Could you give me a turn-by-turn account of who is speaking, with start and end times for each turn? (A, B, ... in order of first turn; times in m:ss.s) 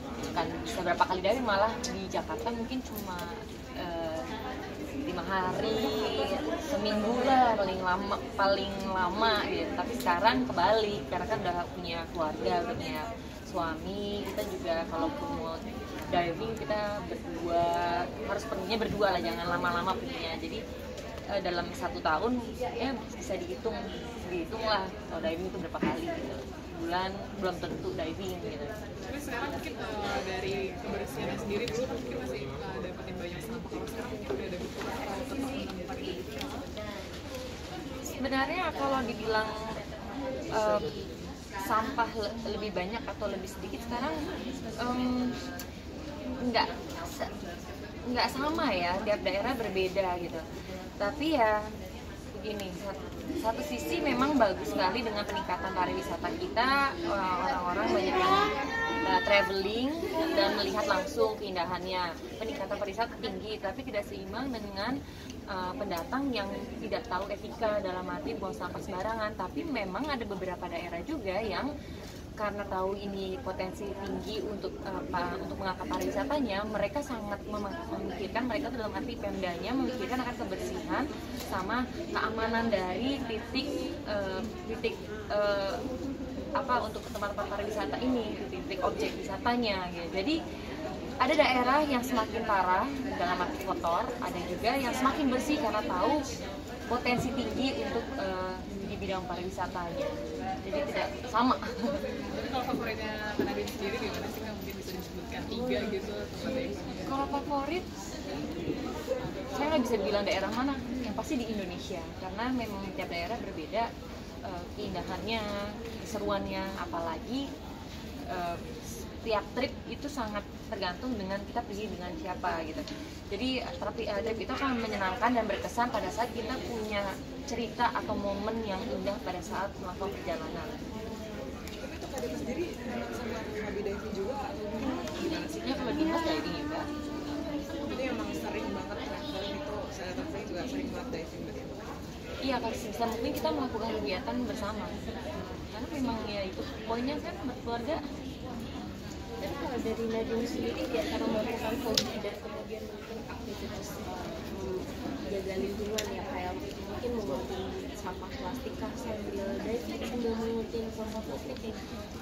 0:00.3-0:04.3 A
0:05.1-0:20.6 A
0:21.4-0:28.7 A
0:29.1-0:36.6 B
0:38.1-0:39.5 A
0:40.5-0:40.9 A
0:41.6-0:44.2 A
0:44.8-0:45.4 A
0:46.4-0:47.3 A
0:48.1-0:50.4 A
0:51.0-0:51.6 A
0:52.4-0:58.5 A
0:59.0-1:05.0 A
1:05.5-1:11.7 A
1:12.4-1:25.8 A
1:26.6-1:30.4 A
1:31.2-1:36.2 A
1:36.9-1:41.9 A
1:42.1-1:47.1 B
1:47.1-1:47.9 A
1:49.5-1:53.9 A
1:54.4-1:57.5 A
1:58.3-2:10.8 A
2:11.8-2:14.8 B
2:15.2-2:16.8 A
2:17.9-2:21.8 B
2:22.4-2:25.0 A
2:25.7-2:28.0 A
2:29.4-2:41.8 C